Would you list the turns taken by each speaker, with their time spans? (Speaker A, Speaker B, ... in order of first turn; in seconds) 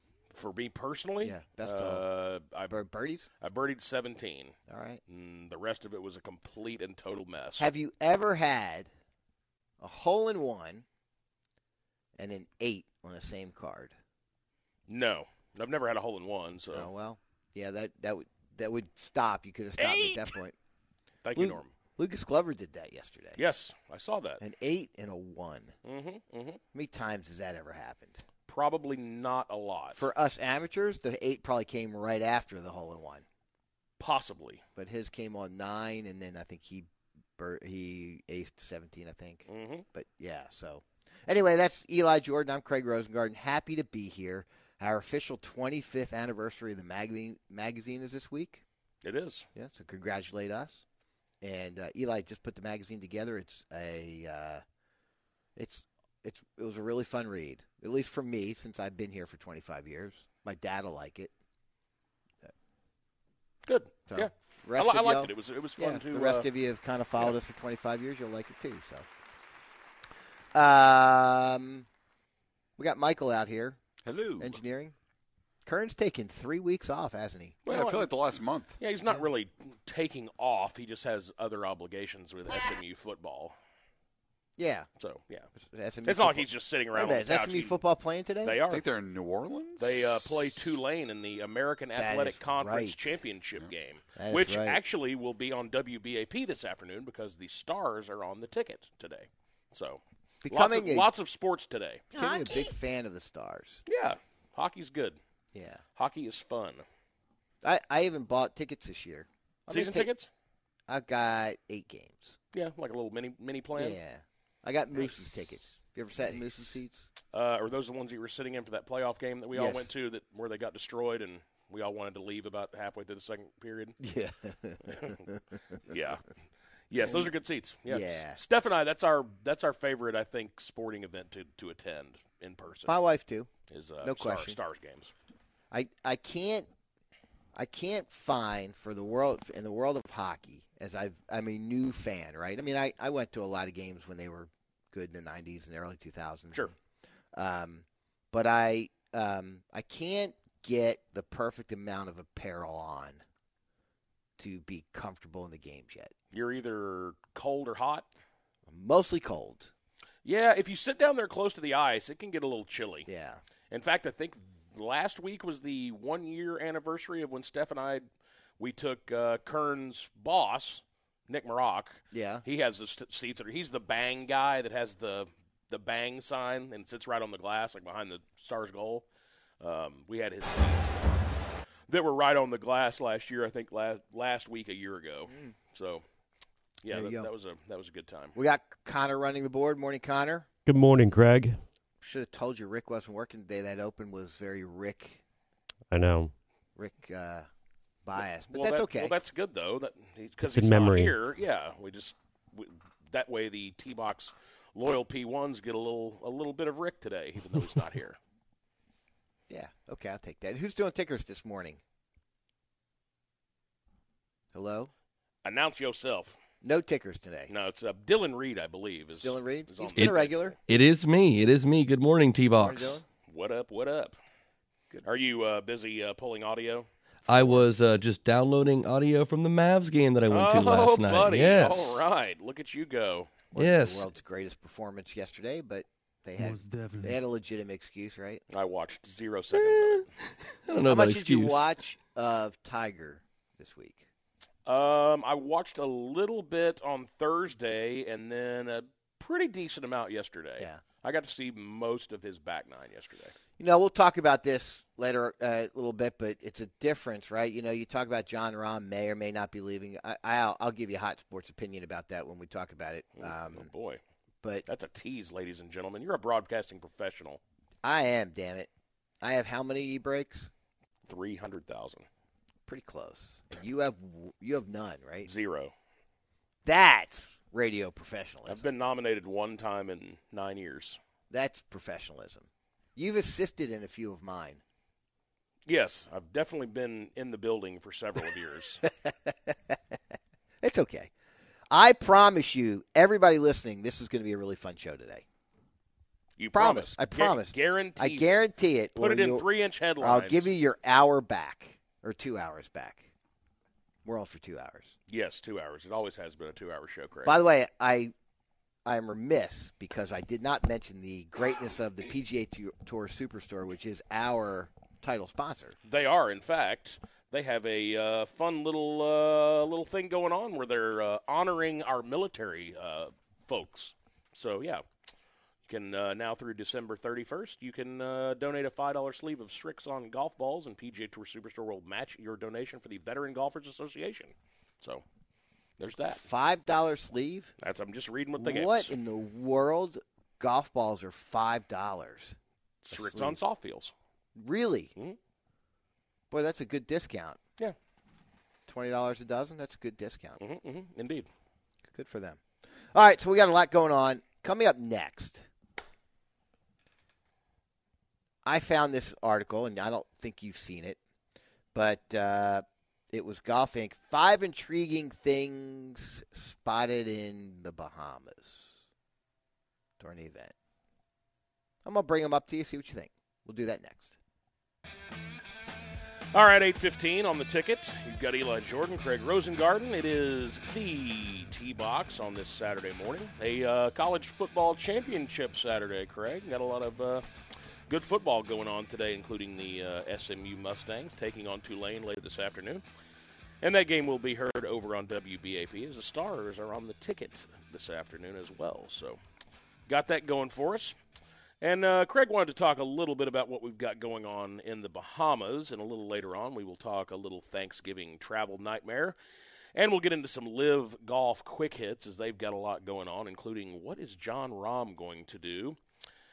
Speaker A: 0.3-2.8, 3.4-4.6, 5.1-7.7, 14.9-16.9, 19.8-20.4, 21.2-21.7, 23.4-24.4, 25.8-26.6, 28.5-30.1, 34.0-34.6, 39.5-39.9, 49.0-49.5, 63.7-66.5, 77.7-78.1, 78.8-83.5, 85.0-85.5, 86.0-87.8, 88.4-88.8, 89.8-102.0, 103.9-105.2, 106.0-106.8, 109.7-110.3, 112.5-114.0, 117.3-124.0, 124.9-125.2, 125.9-126.2, 126.9-133.0, 133.7-135.1, 156.3-158.1, 160.2-163.1, 163.7-168.1, 168.6-179.1, 179.6-181.3, 181.9-186.0, 186.8-188.4, 198.5-208.2, 215.4-216.4, 217.5-220.6, 223.3-224.2, 225.0-226.9, 230.3-233.4, 238.5-240.1, 244.7-253.3, 263.2-264.0, 264.7-267.4, 271.1-272.1, 275.2-275.7, 278.5-281.0, 285.7-288.8, 296.4-298.3, 299.0-300.5, 305.1-307.4, 315.9-324.9, 325.7-335.0, 335.8-336.2, 337.6-338.9, 342.9-343.9, 350.4-351.3, 376.3-387.2, 387.9-392.8, 393.6-399.2, 399.9-401.0, 401.6-409.2, 409.8-415.8
Speaker B: 1.2-2.0, 2.7-3.3, 4.7-5.0, 7.6-8.9, 9.8-10.8, 12.2-13.9, 16.7-20.6, 21.4-23.4, 24.4-25.8, 26.7-28.2, 29.9-33.2, 34.8-48.6, 49.5-50.9, 51.4-54.6, 55.6-61.3, 64.1-69.1, 70.5-71.9, 72.8-73.8, 74.4-75.0, 75.7-77.6, 84.6-84.9, 85.6-88.6, 92.0-93.2, 94.2-94.8, 100.4-101.1, 102.1-103.8, 105.5-105.8, 107.6-110.1, 110.9-112.4, 113.8-117.1, 119.5-119.9, 124.0-125.8, 127.0-127.3, 127.8-128.4, 132.9-133.5, 134.0-134.6, 135.7-136.7, 137.6-146.8, 147.3-153.2, 154.4-156.1, 158.7-159.7, 163.1-163.4, 172.1-172.4, 185.3-185.6, 186.9-187.3, 188.3-190.5, 192.0-195.2, 196.8-197.5, 198.0-199.2, 209.5-211.8, 214.5-214.9, 216.6-217.5, 219.1-220.6, 222.6-223.0, 233.5-238.4, 240.9-244.1, 253.6-263.7, 267.8-268.7, 269.2-270.5, 272.7-275.3, 276.6-278.7, 281.3-284.6, 288.9-290.0, 290.6-291.1, 291.7-295.2, 296.5-299.5, 300.0-303.1, 304.1-305.0, 307.2-308.1, 308.9-315.8, 336.0-337.5, 338.4-342.4, 342.9-343.4, 344.4-344.9, 346.3-347.4, 348.7-350.4, 351.9-352.4, 352.9-355.5, 358.4-361.0, 361.7-368.8, 370.0-370.5, 371.9-374.2
Speaker C: 74.0-74.6, 77.7-78.8, 88.7-90.8
Speaker D: 190.7-191.6, 195.9-196.3, 200.5-201.2, 236.6-237.0
Speaker E: 220.7-223.0, 227.3-232.0, 233.6-234.1, 240.7-241.7